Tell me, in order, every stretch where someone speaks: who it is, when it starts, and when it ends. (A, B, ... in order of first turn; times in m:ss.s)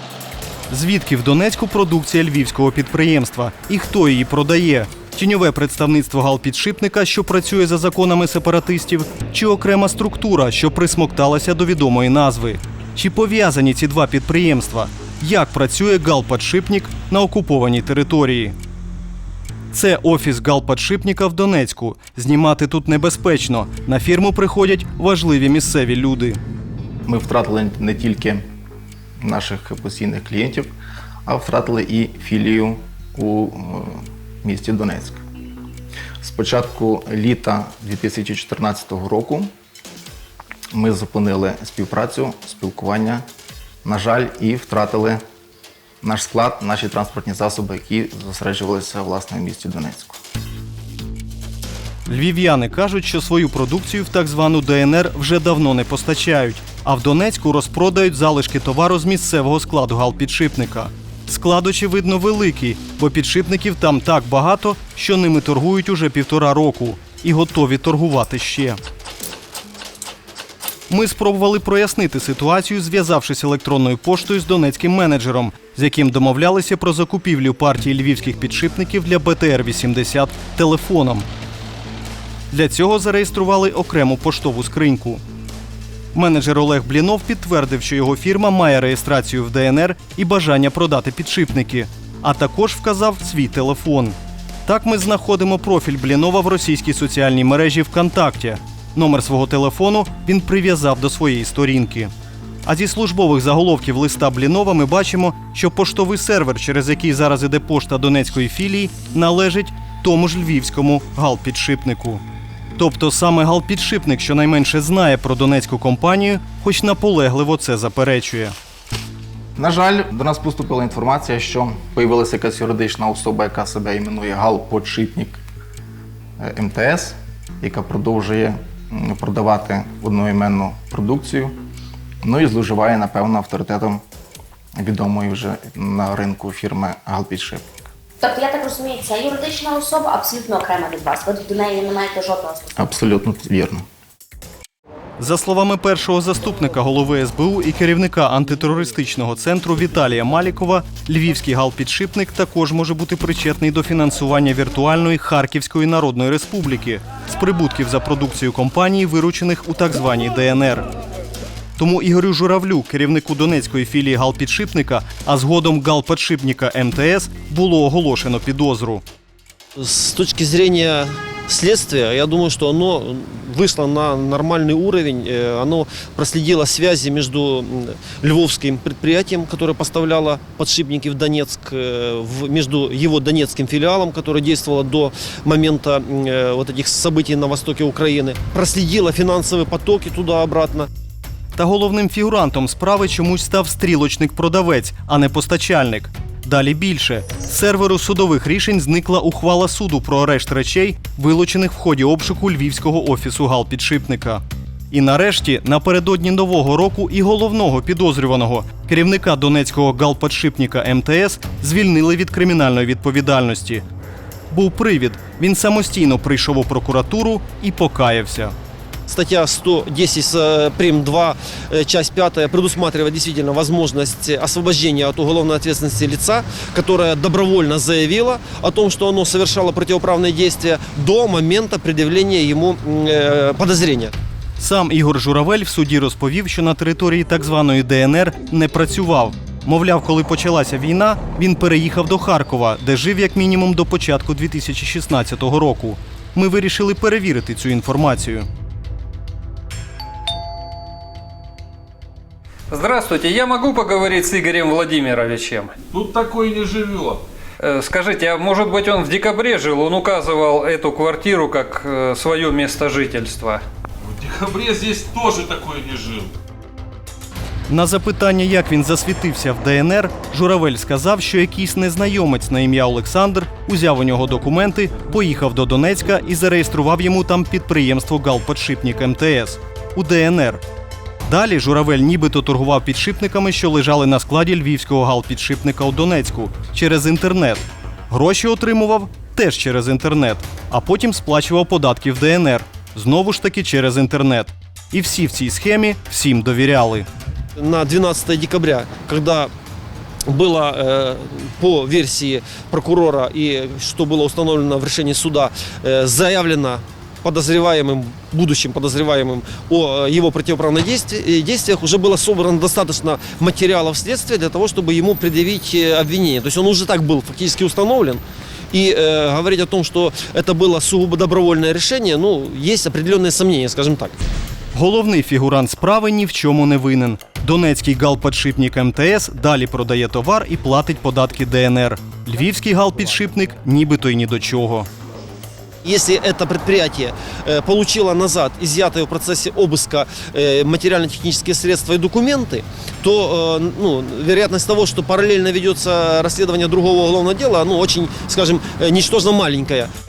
0:00.7-0:18.6 A
0:19.7-0:26.4 A
0:27.1-0:28.5 B
0:29.2-0:30.7 B
0:31.3-0:35.2 B
0:36.2-0:39.5 B
0:40.7-0:43.2 B
0:43.8-0:45.2 B
0:46.0-0:50.2 B
0:52.1-1:08.8 A
1:10.9-1:21.3 A
1:22.5-1:25.2 A
1:26.1-1:42.1 A
1:42.6-1:52.2 A
1:52.8-1:58.6 A
1:59.6-2:05.4 B
2:06.4-2:11.5 B
2:12.2-2:14.0 B
2:14.8-2:17.7 B
2:18.2-2:22.8 C
2:22.8-2:23.8 B
2:25.2-2:40.9 A
2:41.8-2:49.0 A
2:49.8-3:10.9 D
3:11.6-3:33.8 A
3:34.5-3:38.5 A
3:39.1-3:54.1 D
3:54.6-4:08.5 A
4:12.7-4:15.8 E
4:15.9-4:17.2 F
4:17.6-4:23.6 E
4:24.0-4:26.3 F
4:27.7-4:40.6 A
4:41.3-4:57.1 A
4:57.6-4:59.5 D
5:00.3-5:24.2 D
5:24.8-5:34.9 A
5:35.8-5:49.9 D